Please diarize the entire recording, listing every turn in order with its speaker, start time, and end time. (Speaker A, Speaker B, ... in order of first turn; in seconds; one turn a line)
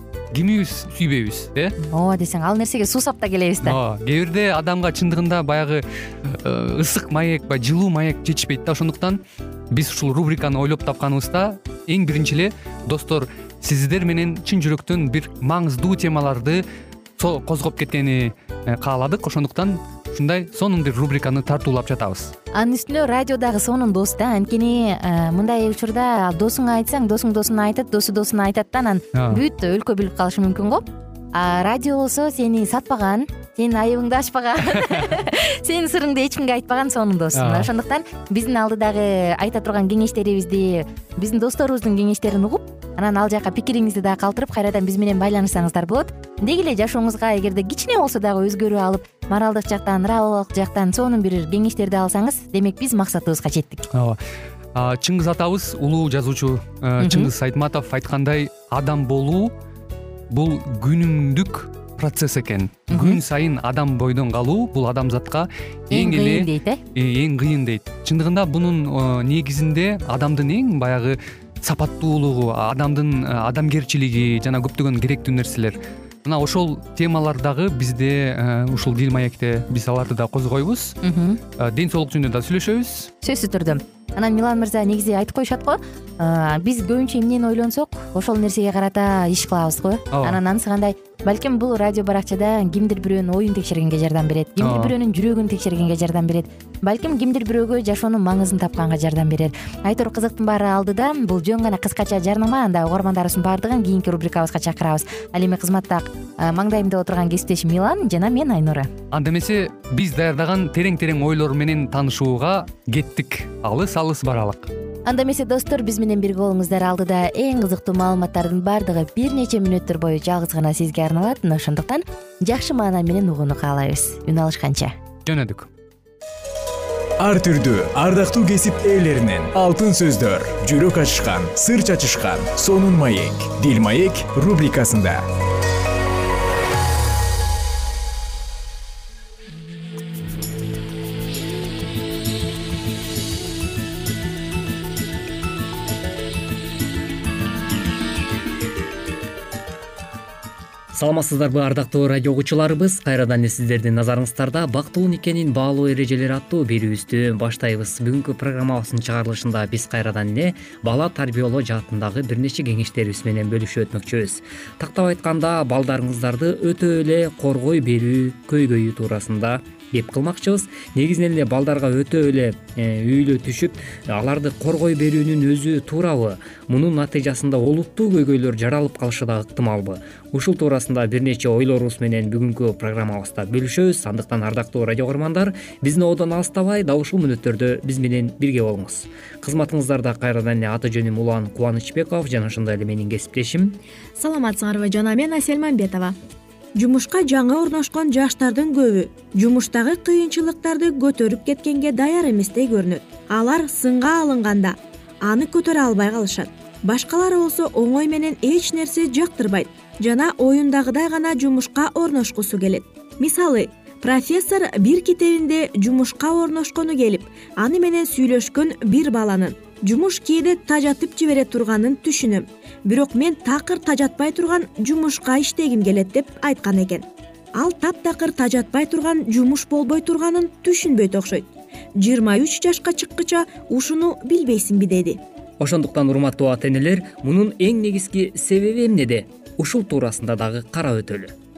Speaker A: 0.3-1.7
Speaker B: 1.8-3.8
Speaker A: 3.6-9.2
Speaker A: 9.7-16.6
Speaker A: 17.2-22.3
Speaker B: 22.5-53.9
Speaker A: 37.3-37.7
Speaker A: 53.9-54.2
Speaker A: 54.7-59.5
Speaker B: 57.0-57.3
Speaker A: 60.3-81.0
Speaker B: 62.9-63.2
Speaker B: 65.9-66.8
Speaker B: 81.0-81.4
Speaker A: 81.6-83.1
Speaker B: 83.2-108.9
Speaker A: 90.1-90.4
Speaker A: 94.6-94.9
Speaker A: 109.1-114.7
Speaker B: 115.0-124.9
Speaker A: 125.2-125.7
Speaker C: 127.2-135.2
Speaker D: 150.9-193.8
Speaker E: 194.2-196.2
Speaker E: 196.8-235.2
Speaker D: 235.6-241.3